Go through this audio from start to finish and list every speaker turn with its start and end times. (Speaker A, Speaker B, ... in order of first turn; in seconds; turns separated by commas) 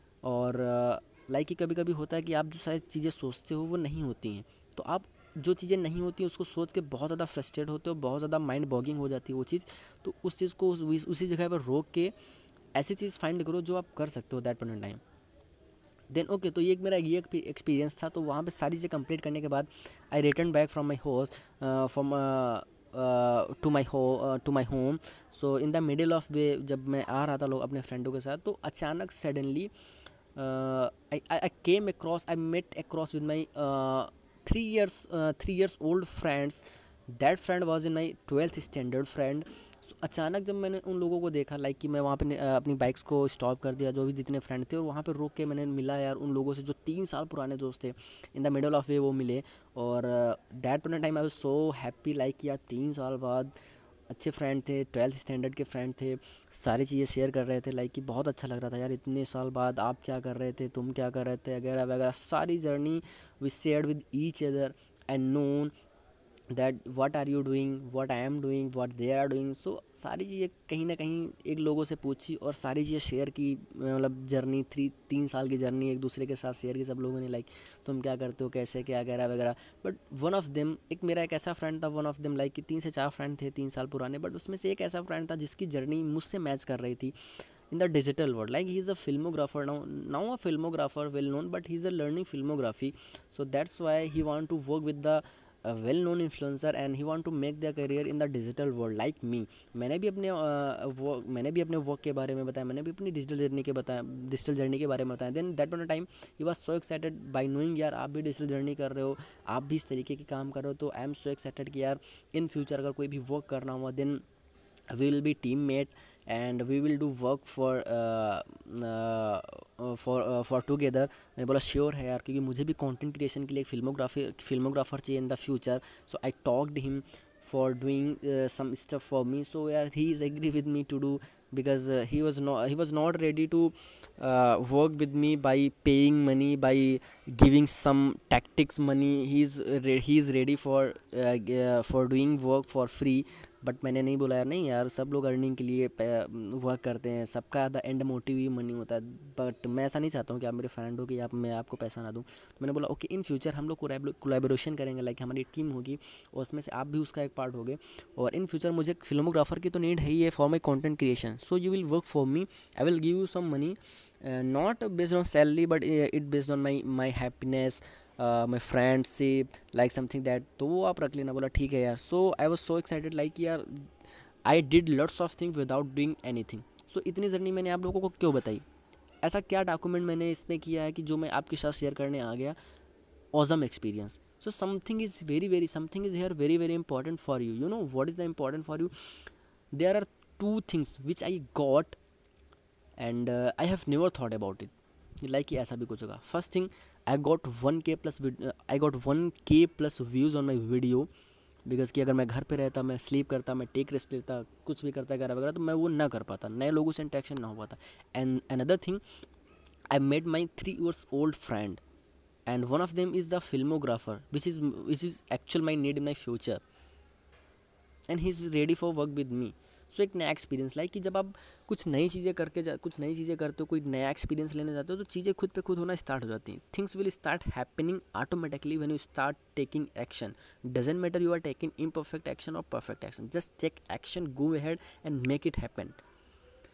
Speaker A: 0.2-12.1, Speaker A: 12.7-15.0, Speaker A: 16.1-29.7, Speaker A: 30.4-36.6, Speaker A: 37.1-53.5, Speaker A: 54.1-65.7, Speaker A: 66.5-87.1, Speaker A: 87.7-114.2, Speaker A: 114.9-173.8, Speaker A: 174.4-178.6, Speaker A: 179.2-182.6, Speaker A: 183.3-188.9, Speaker A: 189.7-192.0, Speaker A: 193.0-201.1, Speaker A: 201.7-209.0, Speaker A: 209.9-211.8, Speaker A: 212.5-216.6, Speaker A: 218.1-236.0